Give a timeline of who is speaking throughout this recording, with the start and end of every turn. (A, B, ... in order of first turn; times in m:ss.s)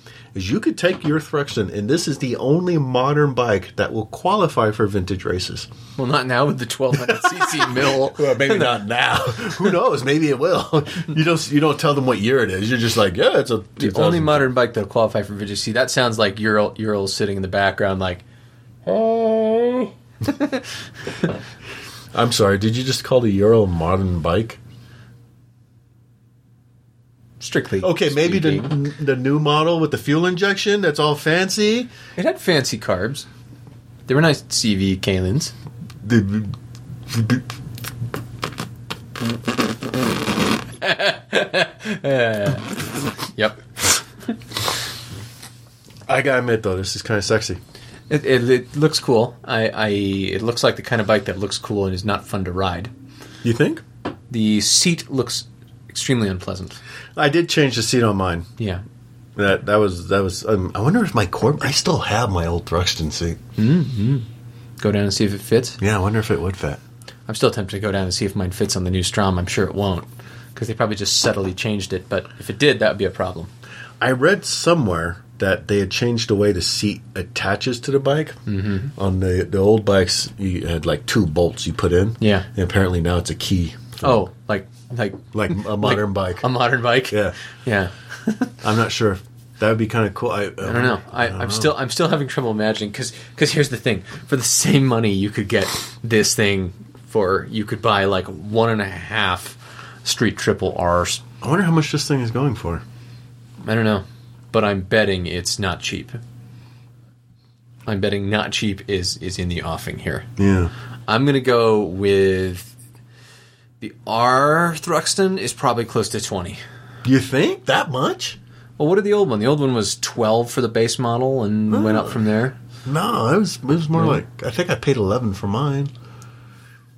0:00.3-0:05.7 A
0:06.0-0:08.8 B
0:07.1-0:14.5 A
0:13.8-0:18.2 B
0:18.8-0:19.9 A
0:20.3-0:20.6 B
0:22.1-0:24.6 A
0:27.4-0:28.8 B
0:27.8-0:31.9 A
0:32.2-0:33.3 B
0:34.1-0:35.5 B
0:36.0-0:36.6 A
0:37.1-0:37.4 A
0:40.8-0:43.7 B
0:46.1-0:47.6 A
0:48.1-0:52.9 B
0:53.4-0:53.8 A
0:54.3-0:56.8 B
0:57.2-0:58.5 A
0:59.4-1:03.4 A
1:03.6-1:04.3 B
1:04.8-1:05.8 B
1:05.8-1:06.8 A
1:07.3-1:13.5 B
1:14.0-1:18.4 A
1:18.5-1:18.9 B
1:19.0-1:24.2 A
1:22.2-1:22.5 B
1:24.0-1:28.5 B
1:25.3-1:26.5 A
1:27.1-1:27.4 A
1:28.6-1:31.8 A
1:30.6-1:41.2 B
1:41.4-1:42.8 A
1:43.6-1:46.2 B
1:47.9-1:50.3 B
1:50.4-1:50.7 A
1:51.1-1:52.7 B
1:53.8-1:56.6 B
1:57.0-1:58.4 A
1:58.8-2:02.6 B
2:01.7-2:02.2 A
2:02.8-2:05.9 A
2:04.0-2:04.2 B